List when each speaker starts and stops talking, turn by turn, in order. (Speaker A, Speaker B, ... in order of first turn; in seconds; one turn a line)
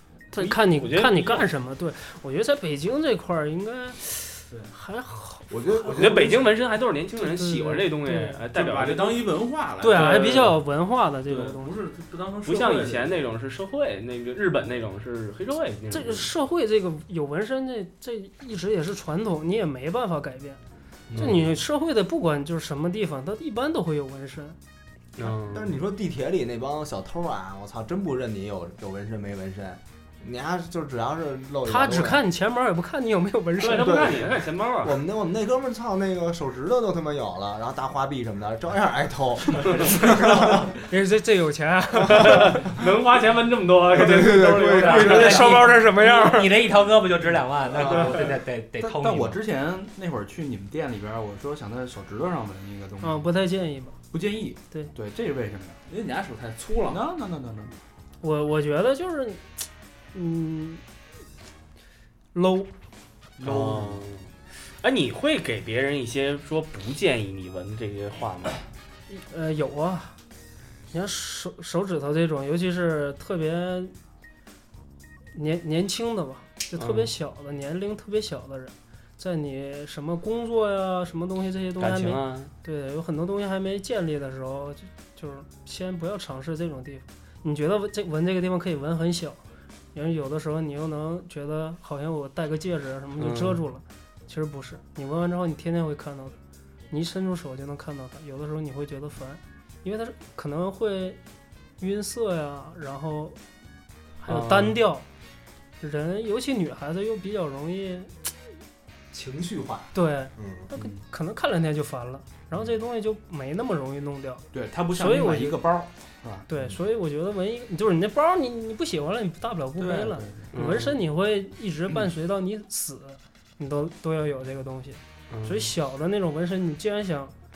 Speaker A: 0.3-5.5
Speaker B: 0.4-1.5
Speaker C: 5.5-6.5
Speaker B: 5.8-9.3
Speaker A: 7.2-8.4
Speaker D: 8.5-10.4
Speaker A: 9.8-11.7
Speaker B: 9.9-10.6
Speaker D: 11.3-13.3
Speaker B: 12.4-16.3
Speaker A: 15.9-20.6
Speaker E: 21.1-21.4
Speaker B: 21.1-21.4
Speaker A: 21.1-24.6
Speaker B: 25.2-25.8
Speaker C: 25.2-32.2
Speaker A: 31.6-34.1
Speaker B: 33.6-35.0
Speaker C: 33.6-40.8
Speaker A: 40.0-42.7
Speaker B: 42.3-45.6
Speaker C: 43.9-45.7
Speaker A: 44.8-46.6
Speaker E: 44.9-49.4
Speaker F: 47.8-53.3
Speaker A: 53.0-54.0
Speaker F: 54.1-55.8
Speaker D: 55.9-57.0
Speaker F: 56.9-57.8
Speaker A: 58.2-59.4
Speaker A: 60.1-60.8
Speaker A: 62.3-62.7
Speaker F: 63.4-64.0
Speaker B: 63.4-68.6
Speaker A: 69.1-70.2
Speaker A: 70.9-74.0
Speaker A: 75.3-89.4
Speaker B: 76.8-77.1
Speaker B: 81.8-82.5
Speaker A: 89.9-96.3
Speaker B: 93.2-93.6
Speaker A: 96.9-101.2
Speaker A: 101.8-103.4
Speaker A: 104.2-105.0
Speaker B: 104.3-104.8
Speaker A: 105.8-108.3
Speaker C: 109.1-110.7
Speaker A: 109.9-115.7
Speaker F: 110.8-111.0
Speaker F: 114.5-116.5
Speaker A: 116.5-127.3
Speaker F: 119.8-120.5
Speaker B: 120.5-121.0
Speaker B: 125.3-125.7